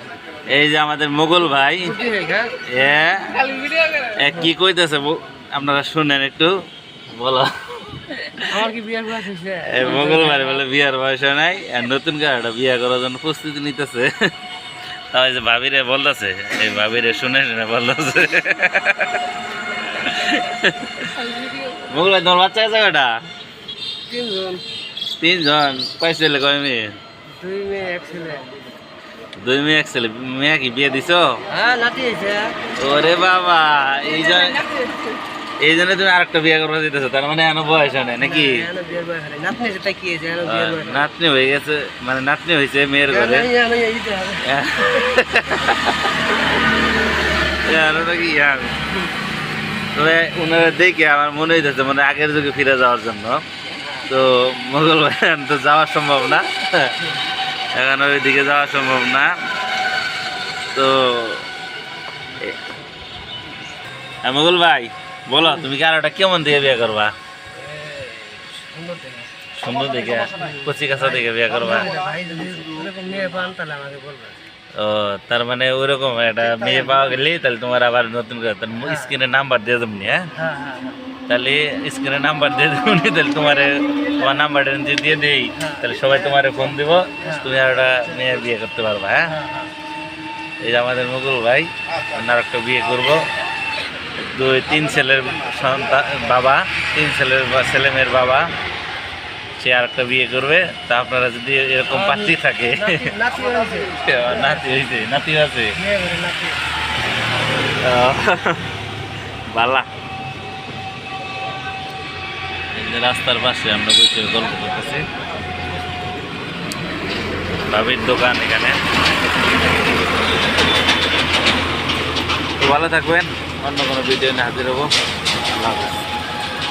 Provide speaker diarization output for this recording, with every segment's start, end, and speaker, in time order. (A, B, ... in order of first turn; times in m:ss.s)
0:00.5-0:02.0 A
0:01.8-0:02.6 B
0:02.6-0:06.5 A
0:07.1-0:08.6 A
0:08.5-0:10.6 B
0:09.6-0:14.1 A
0:15.1-0:19.2 A
0:19.9-0:23.2 A
0:24.0-0:24.6 B
0:25.2-0:27.0 A
0:27.3-0:28.5 B
0:29.4-0:31.4 A
0:31.5-0:32.6 B
0:32.8-0:34.7 A
0:35.6-0:38.7 A
0:38.2-0:41.1 B
0:40.4-0:43.5 A
0:43.1-0:44.5 B
0:44.4-0:46.2 A
0:47.6-0:48.7 A
0:49.9-0:53.4 A
0:54.1-0:57.1 A
0:57.7-0:59.3 A
1:00.7-1:01.5 A
1:04.2-1:07.1 A
1:07.6-1:09.3 B
1:09.5-1:11.9 A
1:10.4-1:14.4 B
1:14.8-1:20.3 A
1:16.5-1:17.0 B
1:18.8-1:19.1 B
1:20.4-1:21.0 B
1:21.3-1:29.3 A
1:25.6-1:26.4 B
1:27.2-1:27.5 B
1:29.3-1:29.7 B
1:30.6-1:33.3 A
1:34.2-1:38.5 A
1:39.6-1:43.1 A
1:41.9-1:44.6 B
1:44.0-1:45.8 A
1:45.8-1:46.6 B
1:47.8-1:48.7 A
1:49.5-1:49.9 A
1:52.8-1:55.0 A
1:57.7-1:58.8 A
2:02.6-2:04.9 A
2:05.5-2:06.0 A